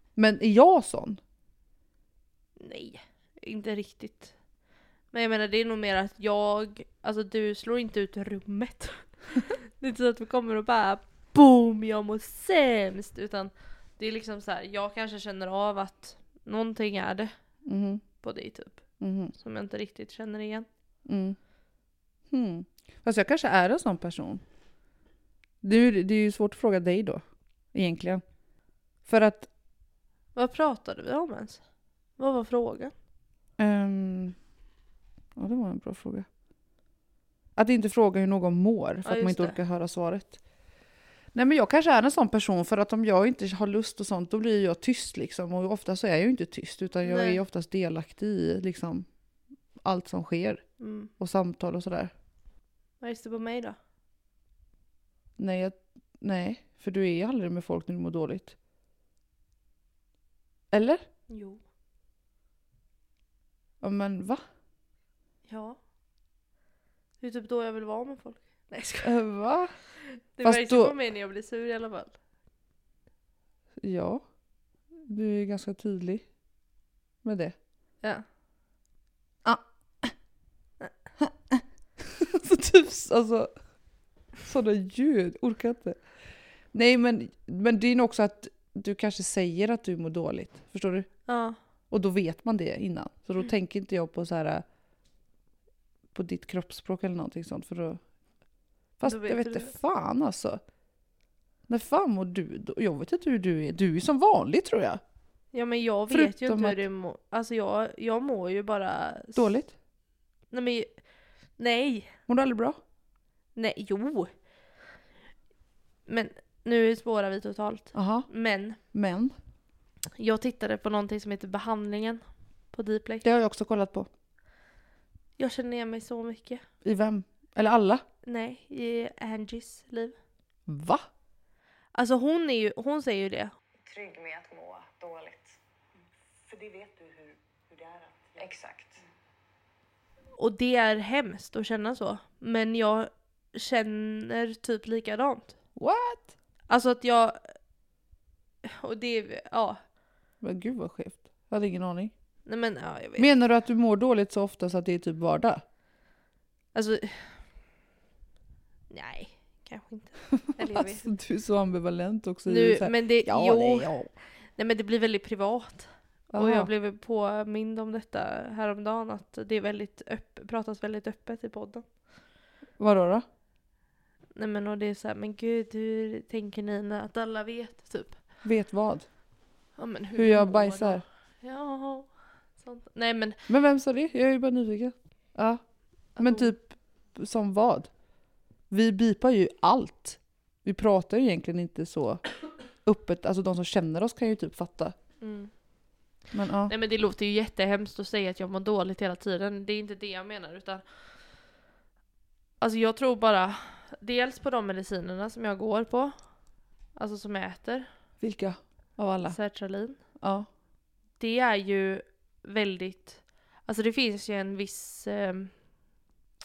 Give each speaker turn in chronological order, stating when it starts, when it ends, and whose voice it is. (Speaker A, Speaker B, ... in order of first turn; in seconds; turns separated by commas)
Speaker A: 0.1-1.2, Speaker B: 2.6-4.3, Speaker B: 5.1-17.3, Speaker A: 17.6-18.0, Speaker B: 18.2-20.7, Speaker A: 19.0-19.3, Speaker A: 21.1-21.4, Speaker A: 22.3-24.4, Speaker A: 25.6-28.2, Speaker A: 29.1-29.5, Speaker B: 30.4-31.6, Speaker B: 32.2-32.9, Speaker A: 33.6-34.4, Speaker A: 35.4-36.3, Speaker A: 37.6-40.4, Speaker B: 39.0-39.6, Speaker A: 41.3-49.1, Speaker B: 47.0-47.4, Speaker A: 49.8-50.7, Speaker B: 50.8-51.1, Speaker A: 51.2-52.1, Speaker B: 53.0-53.8, Speaker A: 55.4-58.6, Speaker A: 60.7-61.0, Speaker B: 61.3-61.6, Speaker A: 63.8-64.4, Speaker B: 65.5-65.8, Speaker B: 67.2-69.2, Speaker A: 69.0-69.7, Speaker B: 70.0-72.2, Speaker A: 70.4-71.0, Speaker A: 73.8-74.2, Speaker A: 75.0-76.2, Speaker A: 77.2-77.5, Speaker A: 79.5-80.1, Speaker A: 81.2-83.5, Speaker A: 84.5-86.0, Speaker A: 86.7-91.1, Speaker B: 91.3-91.6, Speaker A: 91.9-94.6, Speaker A: 96.1-98.0, Speaker A: 99.0-100.6, Speaker B: 99.0-99.7, Speaker A: 101.7-105.0, Speaker B: 105.5-109.5, Speaker A: 106.1-106.8, Speaker A: 109.4-109.8, Speaker B: 110.5-110.9, Speaker B: 111.6-112.2, Speaker A: 112.3-112.8, Speaker B: 113.5-114.3, Speaker B: 116.1-118.8, Speaker A: 117.9-118.3, Speaker A: 118.9-119.3, Speaker B: 120.2-123.2, Speaker A: 123.2-124.1, Speaker B: 125.4-126.6, Speaker A: 126.8-128.0, Speaker B: 128.2-130.2, Speaker A: 130.7-131.1, Speaker B: 131.9-133.5, Speaker C: 133.8-135.6, Speaker C: 136.4-139.0, Speaker B: 140.4-145.6, Speaker A: 145.8-146.3, Speaker B: 146.7-147.5, Speaker B: 148.6-149.8, Speaker A: 150.4-152.1, Speaker B: 152.5-153.3, Speaker A: 153.2-155.6, Speaker B: 156.7-157.4, Speaker B: 158.9-161.1, Speaker A: 160.6-164.1, Speaker B: 162.5-164.0, Speaker B: 164.6-171.9, Speaker A: 166.3-166.7, Speaker A: 172.8-173.2, Speaker B: 174.3-178.2, Speaker A: 178.4-179.1, Speaker B: 179.8-183.4, Speaker A: 180.2-181.0, Speaker A: 183.5-187.9, Speaker B: 186.2-186.5, Speaker A: 188.7-192.3, Speaker A: 192.8-194.9, Speaker B: 195.2-195.5, Speaker A: 196.3-196.7, Speaker B: 196.7-200.8, Speaker B: 202.6-206.2, Speaker B: 207.0-207.9, Speaker A: 208.2-209.4, Speaker B: 209.3-210.0, Speaker A: 210.2-210.5, Speaker B: 211.2-215.5